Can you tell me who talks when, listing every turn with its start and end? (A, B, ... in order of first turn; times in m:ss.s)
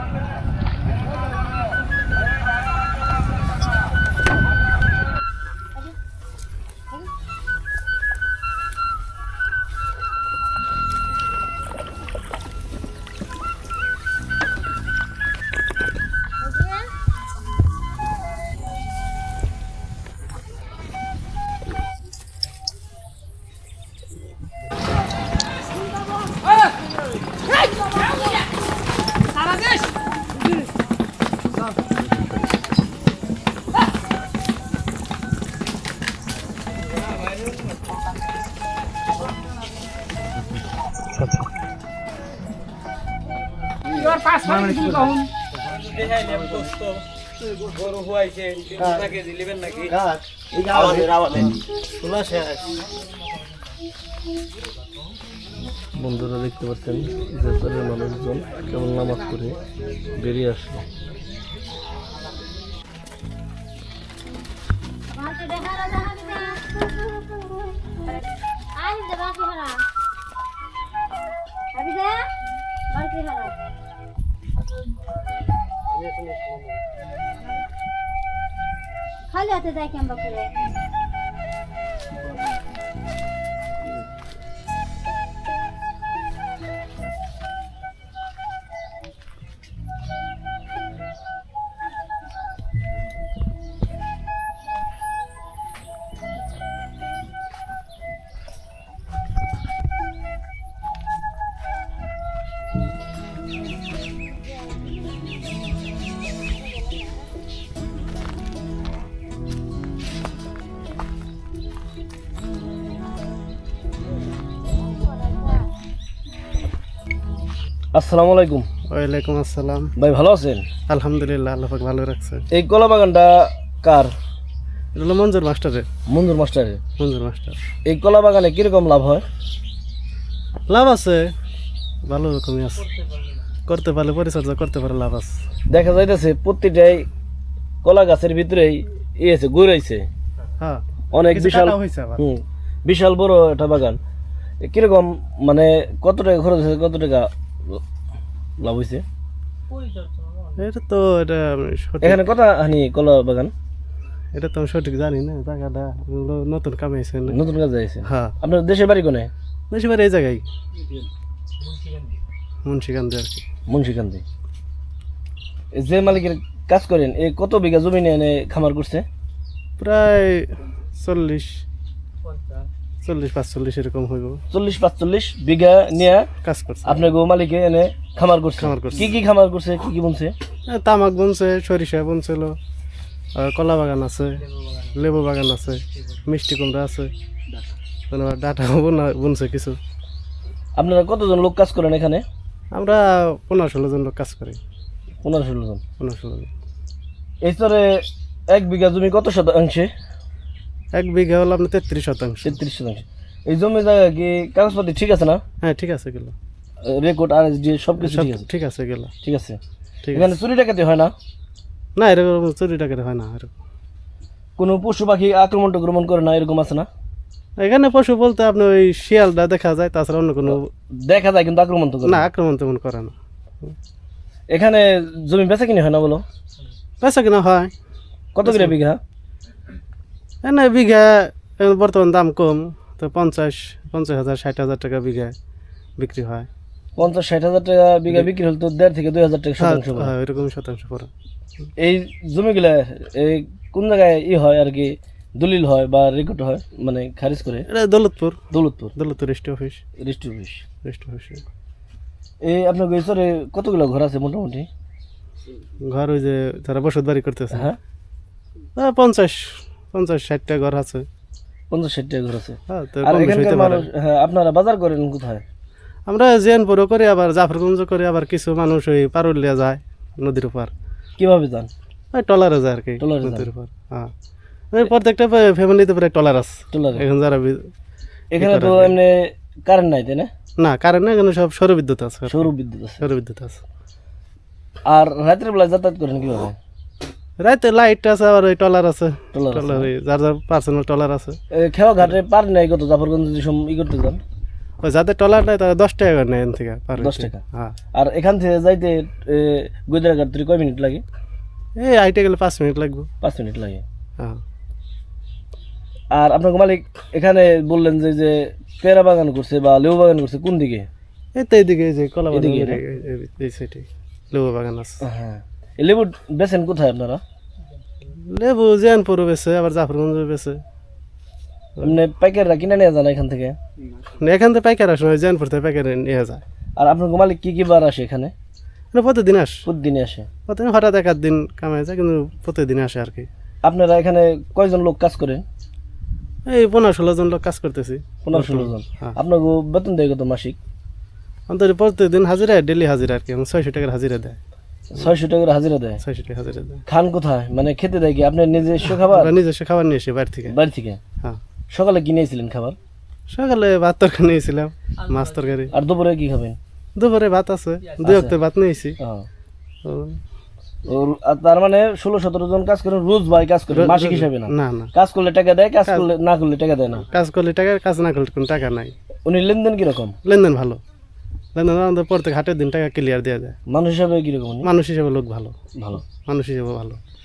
0:16.4-0:16.9 A
0:44.4-0:45.1 B
0:48.8-0:49.1 B
0:49.8-0:50.1 B
0:50.7-0:51.3 B
0:52.0-0:52.6 B
0:55.9-0:59.6 C
1:00.1-1:00.8 C
1:05.1-1:07.5 A
1:08.8-1:09.8 A
1:11.7-1:12.3 A
1:12.9-1:13.5 A
1:15.9-1:16.8 B
1:19.3-1:20.5 A
1:57.9-1:58.7 C
1:58.9-1:59.9 B
2:00.0-2:00.7 C
2:00.9-2:02.4 B
2:02.5-2:04.1 C
2:04.9-2:05.9 B
2:06.1-2:06.8 C
2:07.0-2:07.6 B
2:07.8-2:09.2 C
2:10.7-2:11.3 B
2:12.0-2:12.9 B
2:13.7-2:15.4 B
2:15.7-2:17.1 C
2:17.8-2:20.1 C
2:20.6-2:22.2 B
2:21.1-2:24.0 C
2:24.6-2:27.8 C
2:28.6-2:29.0 C
2:30.6-2:32.2 B
2:32.0-2:33.5 C
2:34.3-2:37.4 B
2:37.3-2:39.3 C
2:38.1-2:38.3 B
2:39.7-2:40.4 B
2:42.6-2:43.4 B
2:43.7-2:44.2 C
2:45.7-2:49.1 C
2:49.8-2:51.6 B
2:53.0-2:54.4 B
2:54.5-2:56.3 C
2:56.4-2:57.1 B
2:56.8-3:00.3 C
2:58.6-2:59.1 B
3:00.7-3:02.6 B
3:03.3-3:07.1 B
3:08.1-3:09.8 B
3:10.8-3:12.2 C
3:12.7-3:14.6 B
3:15.2-3:15.8 C
3:16.0-3:16.5 B
3:17.4-3:19.9 C
3:20.9-3:22.6 B
3:22.4-3:25.4 C
3:25.6-3:26.3 B
3:26.8-3:28.4 C
3:28.0-3:29.1 B
3:29.2-3:29.6 C
3:30.0-3:30.4 B
3:30.1-3:31.1 C
3:32.0-3:33.5 B
3:34.6-3:36.9 C
3:37.6-3:40.7 B
3:40.5-3:42.3 C
3:42.0-3:43.1 B
3:44.5-3:46.2 C
3:47.0-3:47.7 B
3:48.3-3:49.0 C
3:48.4-3:48.8 B
3:50.4-3:55.4 B
3:56.0-3:56.5 B
3:57.0-4:00.1 C
3:59.6-4:01.1 B
4:01.8-4:07.7 C
4:07.7-4:08.4 B
4:08.5-4:08.9 C
4:09.0-4:09.8 B
4:10.0-4:10.6 C
4:10.8-4:11.4 B
4:12.4-4:14.7 C
4:15.9-4:17.7 B
4:18.8-4:21.1 B
4:21.7-4:25.4 C
4:22.7-4:23.8 B
4:26.1-4:30.7 B
4:31.2-4:31.7 C
4:32.1-4:34.1 B
4:33.0-4:33.5 C
4:34.7-4:37.7 B
4:36.7-4:37.0 C
4:38.3-4:40.3 C
4:38.4-4:39.0 B
4:40.6-4:43.6 B
4:42.3-4:43.0 C
4:44.9-4:46.6 C
4:47.4-4:51.4 B
4:49.3-4:49.9 C
4:51.5-4:54.2 C
4:54.8-4:57.7 B
4:57.0-4:57.4 C
4:57.9-5:01.0 C
5:01.8-5:03.1 B
5:03.2-5:03.8 C
5:06.1-5:10.9 C
5:11.3-5:15.0 B
5:12.3-5:12.8 C
5:15.0-5:17.2 C
5:18.1-5:20.6 B
5:21.8-5:23.6 C
5:24.2-5:26.4 B
5:26.8-5:28.3 C
5:28.9-5:29.6 B
5:29.7-5:30.3 C
5:30.5-5:33.3 B
5:33.6-5:35.4 C
5:36.5-5:39.1 B
5:38.2-5:40.6 C
5:41.5-5:44.4 B
5:44.9-5:46.0 C
5:46.0-5:46.8 B
5:46.9-5:49.4 C
5:49.0-5:50.6 B
5:50.5-5:51.0 C
5:51.7-5:52.8 C
5:53.3-5:55.8 B
5:55.7-5:56.6 C
5:57.0-5:59.0 B
5:58.0-5:58.4 C
5:59.0-5:59.3 C
5:59.8-6:00.2 B
6:00.8-6:07.0 C
6:03.7-6:04.9 B
6:07.1-6:08.9 B
6:09.2-6:10.2 C
6:10.2-6:10.8 B
6:11.5-6:13.6 B
6:13.7-6:14.7 C
6:14.6-6:15.5 B
6:15.8-6:16.0 C
6:16.2-6:17.0 B